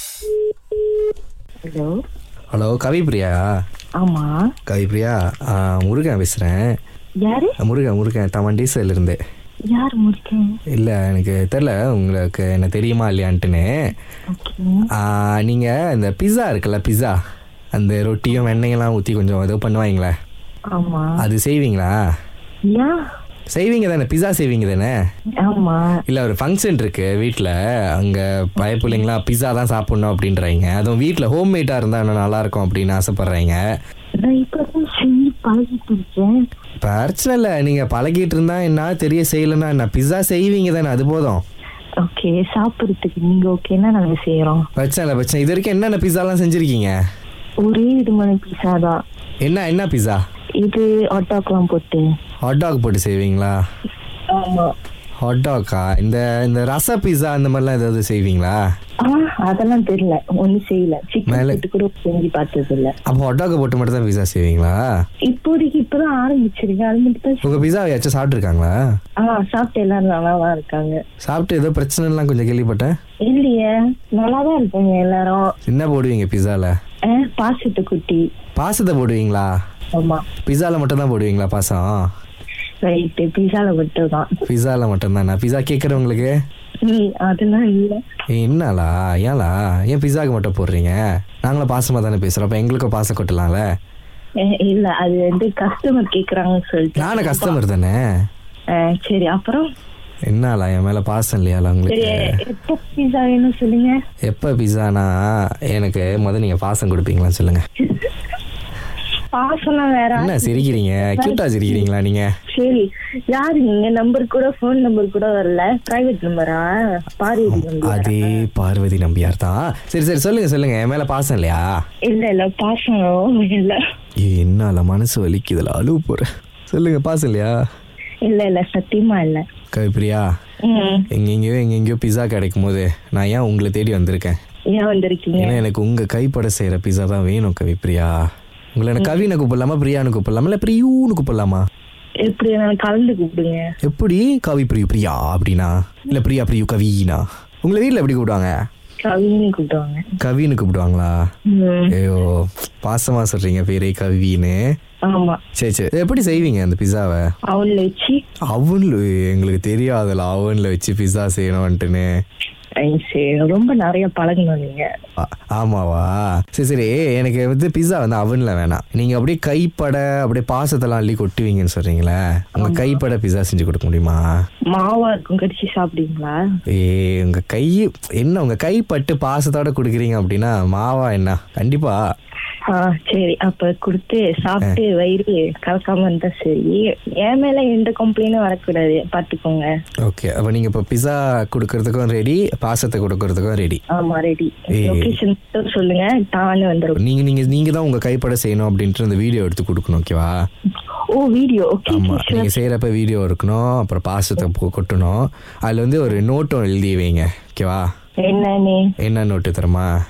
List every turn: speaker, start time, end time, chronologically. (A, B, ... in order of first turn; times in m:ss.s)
0:01.6-0:01.9 A
0:02.5-0:03.4 B
0:04.0-0:04.4 A
0:04.6-0:06.6 B
0:07.2-0:07.6 A
0:07.6-0:09.2 B
0:09.7-0:10.6 A
0:10.7-0:13.7 B
0:14.3-0:14.9 A
0:14.9-0:17.2 B
0:17.8-0:20.1 B
0:20.7-0:21.1 A
0:21.2-0:21.9 B
0:22.7-0:23.0 A
0:23.5-0:24.9 B
0:25.4-0:25.9 A
0:26.1-0:33.6 B
0:28.6-0:29.0 A
0:34.2-0:36.4 A
0:36.8-0:41.4 B
0:42.0-0:44.6 A
0:44.8-0:46.9 B
0:47.6-0:49.0 A
0:49.4-0:50.2 B
0:50.6-0:52.0 A
0:52.4-0:53.6 B
0:54.3-0:54.7 A
0:55.2-0:58.6 B
0:59.0-1:02.9 A
1:01.3-1:01.6 B
1:03.1-1:04.8 B
1:05.3-1:07.6 A
1:07.4-1:08.7 B
1:09.2-1:11.0 A
1:11.2-1:12.9 B
1:13.2-1:15.4 A
1:15.7-1:16.7 B
1:17.1-1:18.2 A
1:18.6-1:19.5 B
1:20.0-1:20.2 A
1:20.4-1:22.0 B
1:22.8-1:24.3 A
1:24.5-1:26.3 B
1:26.8-1:28.0 A
1:28.3-1:33.6 B
1:34.4-1:37.6 A
1:37.0-1:38.0 B
1:38.7-1:39.6 A
1:40.3-1:42.3 B
1:41.9-1:44.0 A
1:44.3-1:45.2 B
1:45.7-1:47.6 B
1:47.8-1:48.1 A
1:49.3-1:51.9 A
1:50.2-1:52.3 B
1:52.5-1:58.4 A
1:57.4-2:01.6 B
2:02.0-2:03.8 A
2:04.2-2:07.5 B
2:08.2-2:09.4 A
2:09.7-2:10.2 B
2:10.6-2:11.1 A
2:11.1-2:14.4 B
2:14.7-2:15.6 A
2:15.4-2:18.1 B
2:18.7-2:21.6 B
2:19.0-2:19.2 A
2:22.2-2:23.6 A
2:23.8-2:28.5 B
2:29.0-2:30.0 A
2:30.2-2:31.2 B
2:31.5-2:31.9 A
2:31.9-2:34.6 B
2:35.1-2:35.4 A
2:35.6-2:37.2 B
2:37.5-2:38.2 A
2:38.5-2:42.1 B
2:42.8-2:44.9 A
2:45.2-2:54.2 B
2:52.6-2:53.0 A
2:54.7-2:56.4 A
2:56.7-3:02.0 B
3:02.7-3:09.7 A
3:10.0-3:13.8 B
3:13.9-3:17.0 A
3:14.7-3:15.1 B
3:17.0-3:20.3 B
3:21.1-3:22.6 A
3:21.9-3:27.8 B
3:28.2-3:28.8 A
3:29.0-3:29.9 B